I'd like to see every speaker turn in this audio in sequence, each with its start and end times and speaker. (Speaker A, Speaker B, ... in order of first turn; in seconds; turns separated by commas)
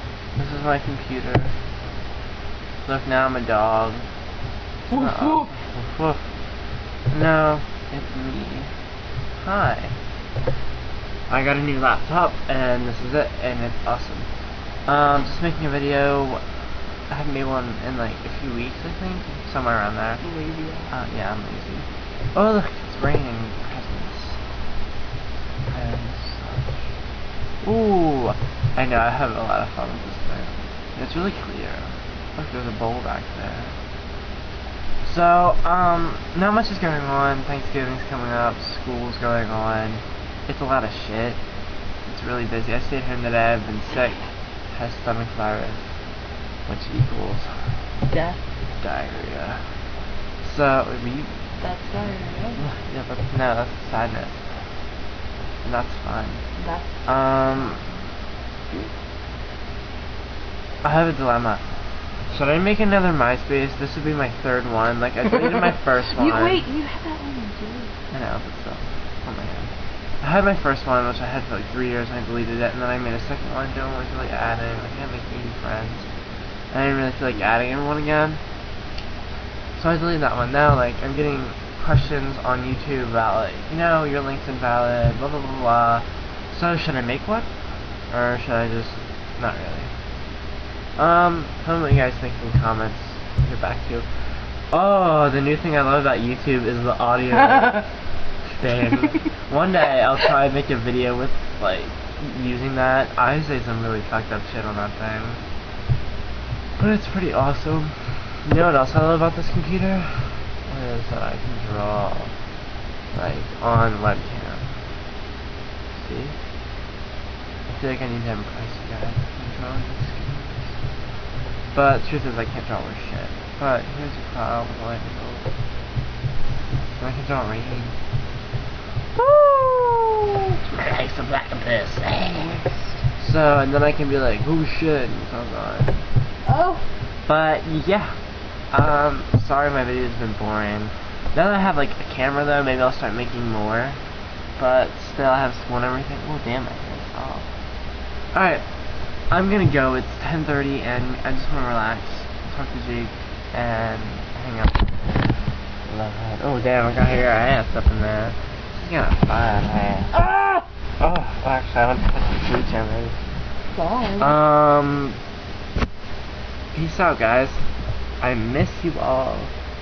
Speaker A: 0.3-1.6, Speaker A: 2.8-4.1, Speaker A: 4.9-6.3, Speaker A: 7.1-8.8, Speaker A: 9.3-10.0, Speaker A: 11.3-14.3, Speaker A: 14.8-16.4, Speaker A: 17.1-20.2, Speaker B: 20.2-20.9, Speaker A: 20.9-24.4, Speaker A: 25.7-26.9, Speaker A: 27.6-33.8, Speaker A: 35.0-41.4, Speaker A: 42.0-46.0, Speaker A: 46.6-47.8, Speaker B: 48.1-48.5, Speaker A: 48.8-49.7, Speaker A: 50.4-54.5, Speaker B: 51.6-52.6, Speaker A: 55.6-56.4, Speaker B: 56.6-56.9, Speaker A: 57.0-57.8, Speaker A: 60.8-61.6, Speaker A: 62.3-66.7, Speaker B: 66.1-68.0, Speaker A: 68.1-76.1, Speaker A: 76.7-78.4, Speaker A: 79.8-87.5, Speaker A: 88.1-89.9, Speaker A: 91.0-97.9, Speaker A: 98.5-105.4, Speaker A: 106.8-112.3, Speaker A: 113.1-114.7, Speaker A: 115.9-116.4, Speaker A: 117.7-120.8, Speaker A: 121.7-125.5, Speaker A: 127.0-128.0, Speaker A: 129.2-130.1, Speaker A: 130.6-132.6, Speaker B: 132.2-132.8, Speaker A: 133.2-136.1, Speaker B: 136.5-136.8, Speaker A: 137.2-144.0, Speaker A: 144.6-147.5, Speaker A: 148.3-155.3, Speaker A: 155.8-163.2, Speaker B: 163.7-164.4, Speaker A: 164.2-165.2, Speaker A: 166.7-169.5